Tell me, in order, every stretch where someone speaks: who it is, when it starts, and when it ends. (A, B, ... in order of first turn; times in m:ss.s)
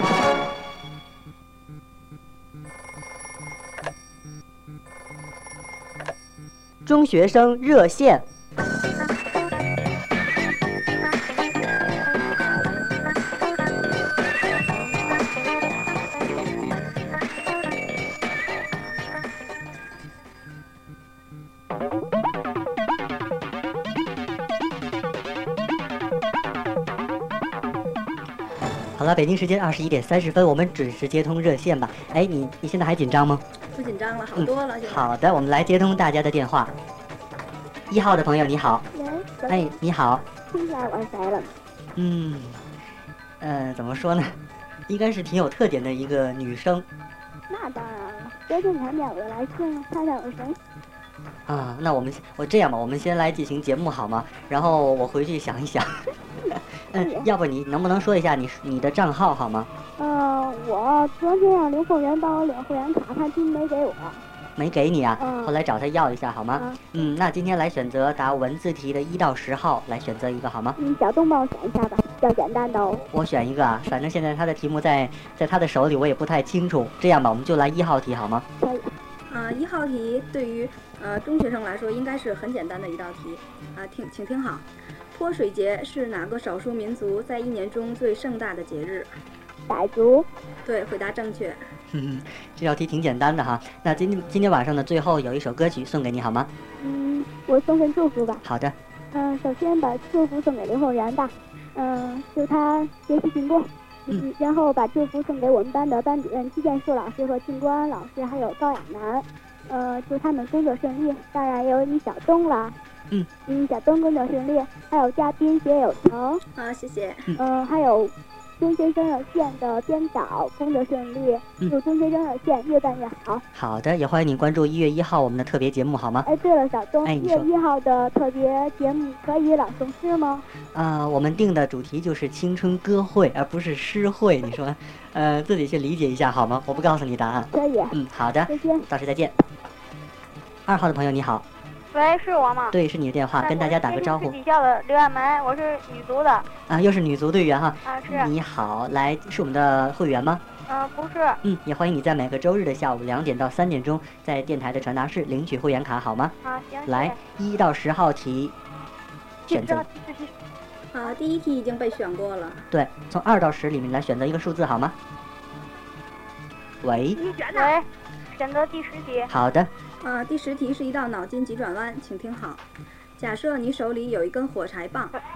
0:06.9-0:08.2 A
0:29.0-0:33.4 A
0:33.7-0:35.1 B
0:34.4-0:36.7 A
0:37.9-0:38.8 A
0:38.9-0:39.8 C
0:39.5-0:40.2 A
0:40.5-0:41.5 C
0:42.0-0:42.6 A
0:43.4-0:46.9 A
0:47.5-0:50.6 C
0:51.5-0:56.0 A
0:56.5-0:59.7 A
0:57.0-0:57.3 C
1:00.0-1:04.2 C
1:04.6-1:10.8 A
1:05.2-1:05.5 C
1:06.6-1:07.1 C
1:10.8-1:13.1 C
1:13.1-1:18.4 A
1:18.6-1:18.9 C
1:19.3-1:29.1 B
1:29.7-1:30.3 C
1:30.6-1:31.6 B
1:31.9-1:36.5 A
1:36.8-1:38.4 C
1:38.4-1:38.8 A
1:39.1-1:52.8 C
1:53.5-1:56.4 C
1:56.6-1:57.3 B
1:57.4-2:03.4 C
2:03.5-2:06.3 A
2:06.2-2:10.4 C
2:07.0-2:07.5 A
2:10.7-2:19.4 A
2:17.5-2:18.9 C
2:20.7-2:21.4 A
2:21.9-2:22.8 D
2:22.7-2:24.4 A
2:23.4-2:26.5 D
2:26.7-2:30.4 A
2:27.8-2:28.3 D
2:30.7-2:31.4 D
2:31.4-2:36.4 A
2:36.4-2:37.2 D
2:36.9-2:38.6 A
2:39.5-2:39.9 A
2:39.5-2:40.3 D
2:40.9-2:42.7 B
2:42.7-2:45.0 A
2:46.8-2:47.2 A
2:47.2-2:49.3 D
2:49.3-2:49.7 A
2:50.0-2:52.6 B
2:53.2-2:55.2 B